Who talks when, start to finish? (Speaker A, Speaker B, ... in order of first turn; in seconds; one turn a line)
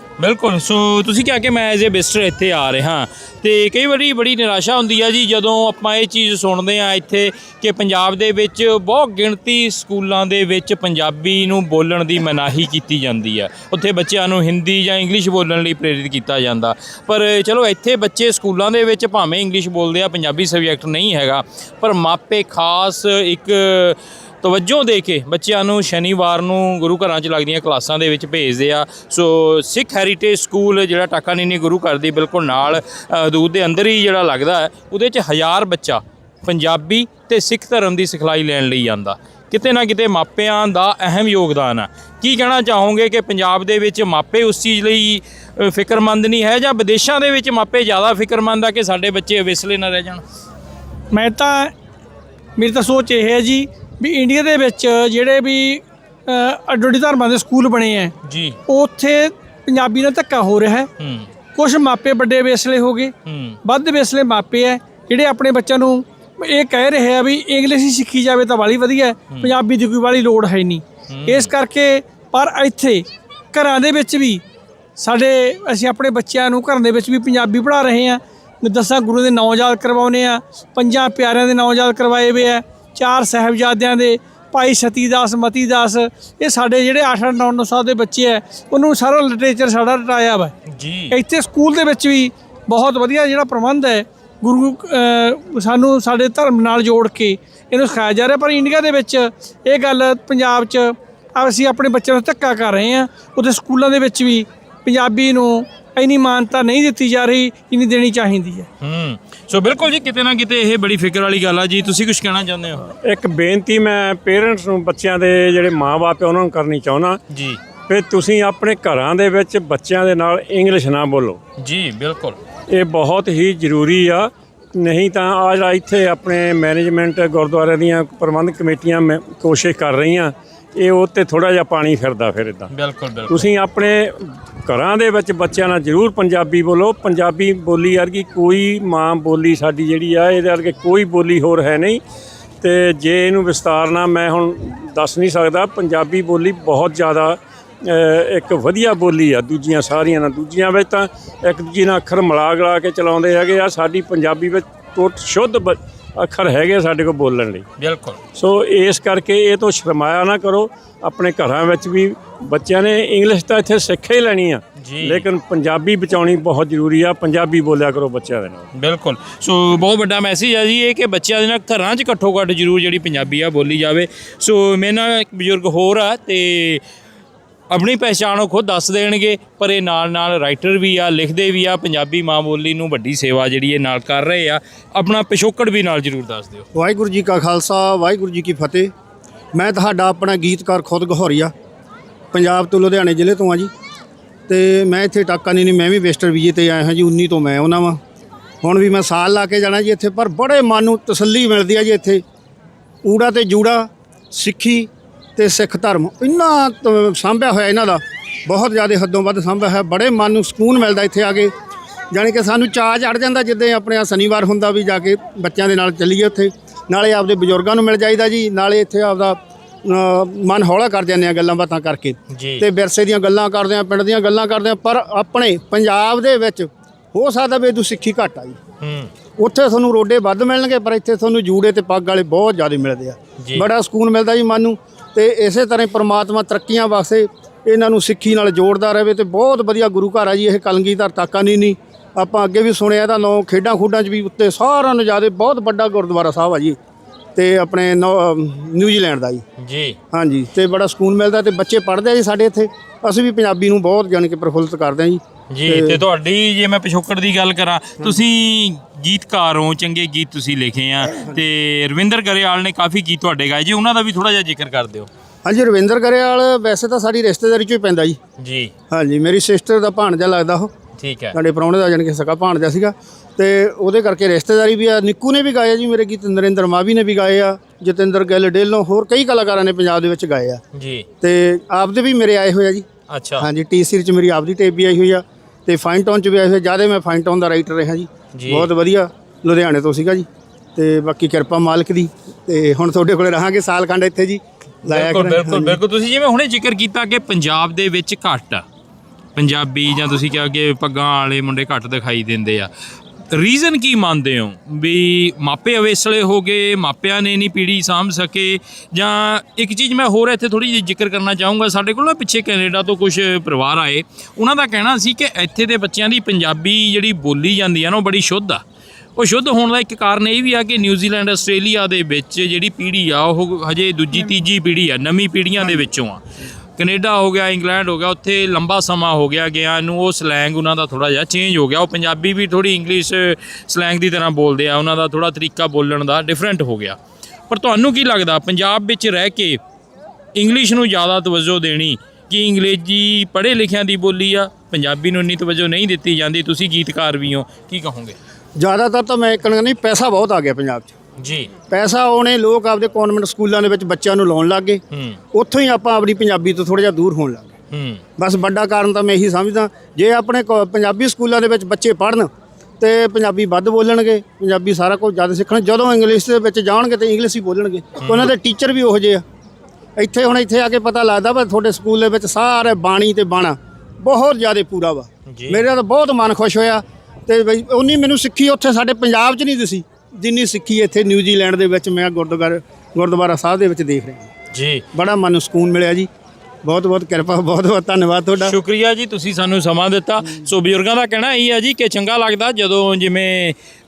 Speaker A: 0.2-50.2
Speaker B: 51.1-51.7
Speaker B: 52.6-58.1
Speaker A: 58.2-58.6
Speaker B: 58.7-60.9
Speaker A: 61.0-61.3
Speaker B: 61.5-74.4
Speaker A: 63.2-63.6
Speaker A: 71.1-71.5
Speaker B: 75.0-90.5
Speaker A: 90.7-91.2
Speaker B: 91.1-108.7
Speaker A: 108.8-112.8
Speaker C: 113.0-117.2
Speaker A: 117.3-117.6
Speaker C: 117.9-121.4
Speaker A: 121.6-122.4
Speaker C: 122.7-132.7
Speaker A: 132.7-133.5
Speaker C: 133.3-142.0
Speaker C: 142.6-157.7
Speaker A: 157.8-158.2
Speaker C: 158.3-168.7
Speaker A: 164.8-165.3
Speaker A: 168.7-176.8
Speaker A: 177.7-186.7
Speaker D: 186.7-188.9
Speaker D: 189.5-191.5
Speaker D: 192.3-193.7
Speaker D: 194.5-198.0
Speaker D: 198.6-202.2
Speaker D: 203.0-211.5
Speaker D: 212.1-228.6
Speaker A: 222.3-222.7
Speaker A: 228.8-229.1
Speaker D: 229.4-246.8
Speaker A: 233.4-233.7
Speaker D: 247.3-249.4
Speaker A: 249.6-250.0
Speaker D: 250.1-256.0
Speaker A: 255.5-265.1
Speaker D: 265.4-268.2
Speaker A: 268.4-268.7
Speaker D: 268.9-270.7
Speaker A: 271.0-271.4
Speaker D: 271.3-280.6
Speaker A: 280.7-281.1
Speaker D: 281.2-282.9
Speaker A: 283.1-283.5
Speaker D: 283.4-295.8
Speaker A: 288.3-288.7
Speaker A: 294.9-298.6
Speaker A: 299.4-302.7
Speaker A: 303.3-318.6
Speaker A: 319.1-326.2
Speaker A: 326.8-337.0
Speaker A: 337.5-339.6
Speaker A: 340.3-348.1
Speaker D: 348.6-350.9
Speaker A: 351.2-351.5
Speaker D: 351.7-354.8
Speaker A: 354.9-355.2
Speaker D: 355.3-357.5
Speaker A: 357.7-358.0
Speaker D: 358.2-369.2
Speaker A: 368.0-368.3
Speaker D: 370.0-384.3
Speaker A: 375.3-375.6
Speaker A: 384.5-384.8
Speaker D: 384.9-386.1
Speaker D: 386.6-388.6
Speaker A: 388.4-393.6